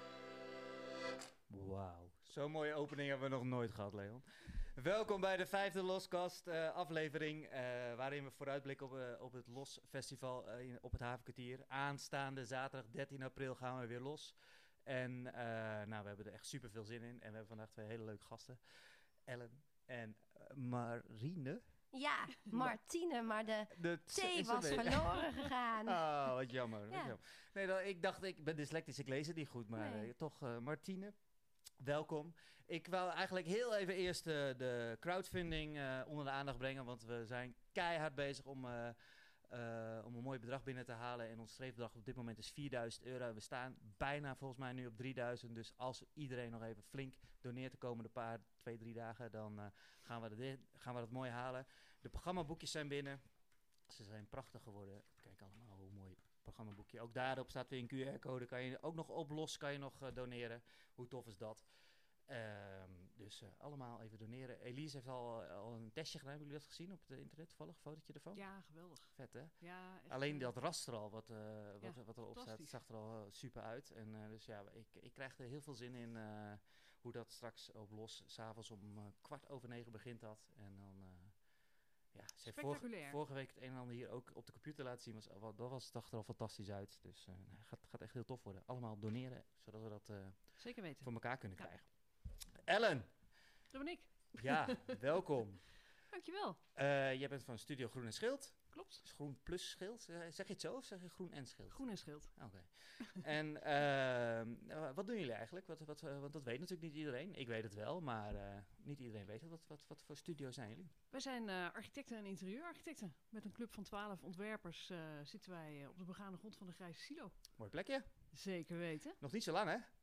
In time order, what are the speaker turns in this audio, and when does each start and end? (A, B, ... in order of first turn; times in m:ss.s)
0:01.5-0:04.2 A
0:04.8-0:18.6 A
0:19.3-0:21.6 A
0:21.9-0:26.0 B
0:23.7-0:25.2 A
0:25.8-0:31.1 A
0:26.9-0:27.1 B
0:29.7-0:30.1 B
0:31.8-0:38.9 A
0:39.5-0:53.2 A
0:53.9-1:01.6 A
1:02.3-1:08.4 A
1:08.3-1:10.5 C
1:09.2-1:09.6 A
1:10.1-1:21.3 A
1:11.8-1:12.8 C
1:22.1-1:30.4 A
1:22.4-1:23.2 C
1:30.6-1:31.7 C
1:31.0-1:31.9 A
1:32.7-1:33.1 A
1:33.7-1:34.9 C
1:34.4-1:35.6 A
1:36.1-1:36.6 C
1:36.8-1:41.8 A
1:38.7-1:39.0 C
1:41.7-1:42.3 C
1:42.4-1:50.9 A
1:51.1-1:57.3 C
1:57.6-1:58.0 A
1:58.3-1:59.2 C
1:59.2-1:59.9 A